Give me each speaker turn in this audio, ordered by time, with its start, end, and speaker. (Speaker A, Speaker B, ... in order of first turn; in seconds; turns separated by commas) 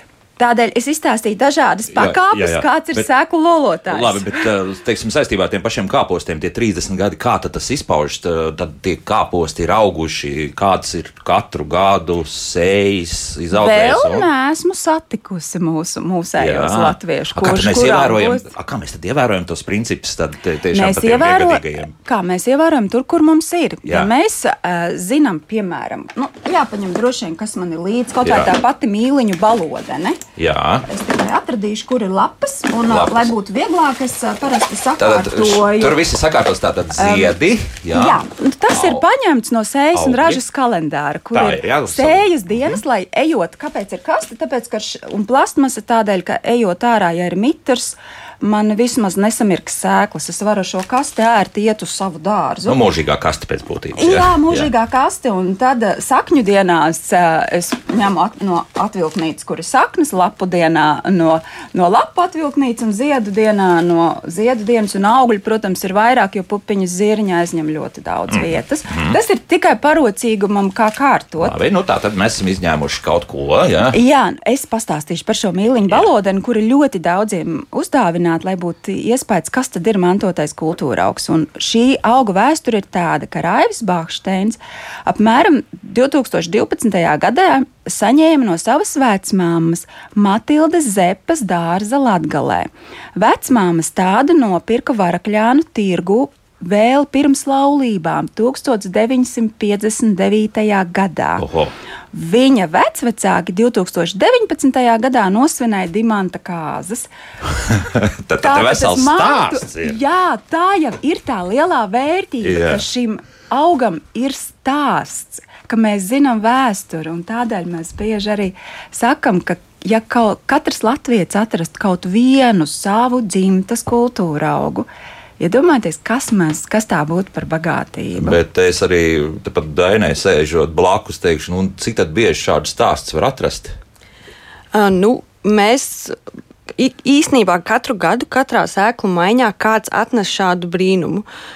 Speaker A: 0.4-4.3, Speaker B: 1.9-3.1, Speaker B: 3.9-14.3, Speaker A: 13.5-18.5, Speaker B: 16.4-21.9, Speaker A: 20.7-30.2, Speaker B: 28.2-28.5, Speaker B: 30.4-30.9, Speaker A: 30.9-36.0, Speaker B: 32.9-33.3, Speaker B: 35.0-39.0, Speaker A: 37.0-37.4, Speaker A: 37.9-52.8, Speaker B: 39.9-40.4, Speaker B: 41.3-42.8, Speaker B: 52.7-54.7, Speaker A: 54.0-71.5, Speaker B: 68.3-69.2, Speaker B: 71.4-74.0, Speaker A: 73.9-101.5, Speaker B: 101.4-101.7, Speaker A: 102.1-107.1, Speaker B: 107.7-110.0, Speaker A: 108.4-124.9, Speaker B: 112.4-112.8, Speaker A: 125.4-128.4, Speaker B: 128.2-133.8, Speaker C: 134.7-136.2, Speaker C: 136.8-141.2